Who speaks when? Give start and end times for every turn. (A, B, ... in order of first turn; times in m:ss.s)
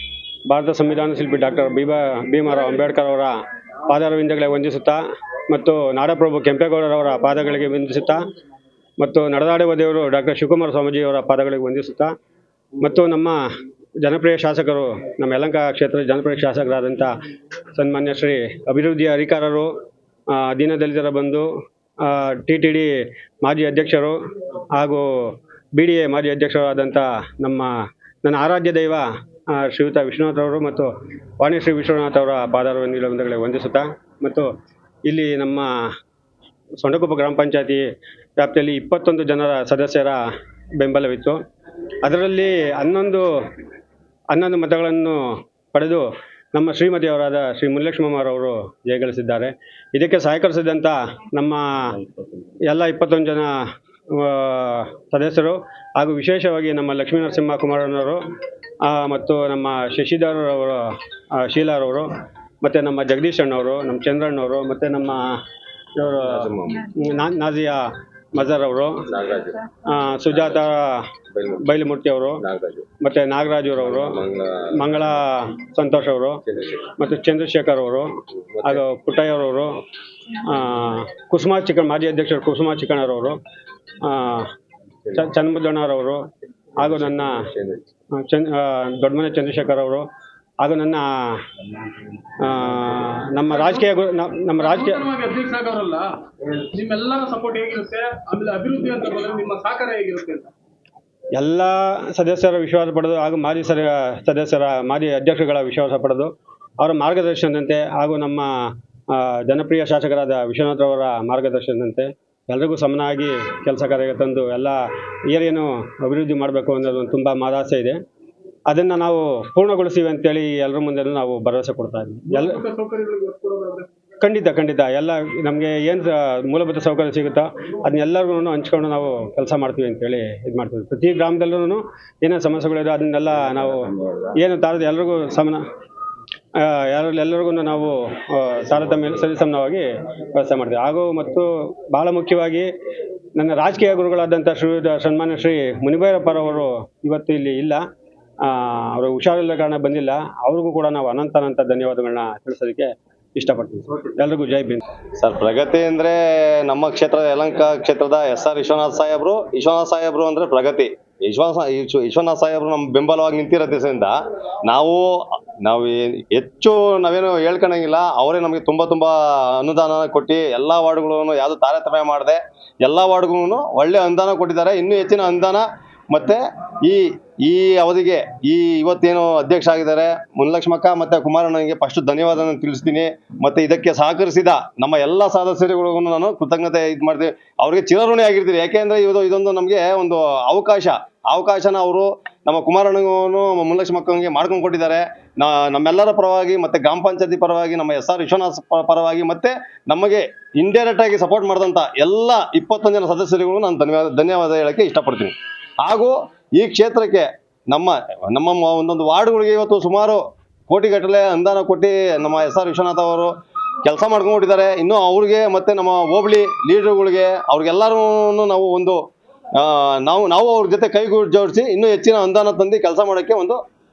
0:00.5-0:03.4 A
0:03.9-0:08.3 A
0:09.0-0:12.1 A
0:12.8-0:17.1 A
0:17.8-0:19.7 A
0:20.3-0:24.2 A
0:24.7-0:34.5 A
0:35.1-0:35.8 A
0:36.8-0:37.8 A
0:38.4-0:40.2 A
0:40.8-0:41.4 A
0:42.0-0:43.3 A
0:44.3-0:52.1 A
0:52.6-0:58.2 A
0:58.8-1:05.4 A
1:06.0-1:09.1 A
1:06.2-1:06.9 B
1:09.1-1:09.6 B
1:09.8-1:12.4 A
1:11.3-1:11.7 B
1:12.4-1:12.9 B
1:13.0-1:14.2 A
1:13.8-1:15.2 B
1:14.7-1:23.4 A
1:16.5-1:16.8 B
1:18.5-1:18.8 B
1:24.0-1:24.5 A
1:25.1-1:27.5 A
1:26.8-1:27.8 B
1:28.1-1:30.1 A
1:30.6-1:31.5 A
1:32.4-1:35.0 A
1:33.5-1:33.9 C
1:34.6-1:40.5 C
1:41.4-1:58.0 A
1:58.7-2:02.6 A
2:02.3-2:03.9 C
2:04.2-2:15.6 A
2:16.6-2:22.7 A
2:23.4-2:27.8 A
2:28.4-2:34.8 A
2:35.2-3:33.3 B
3:33.8-3:39.0 B
3:39.6-3:43.6 B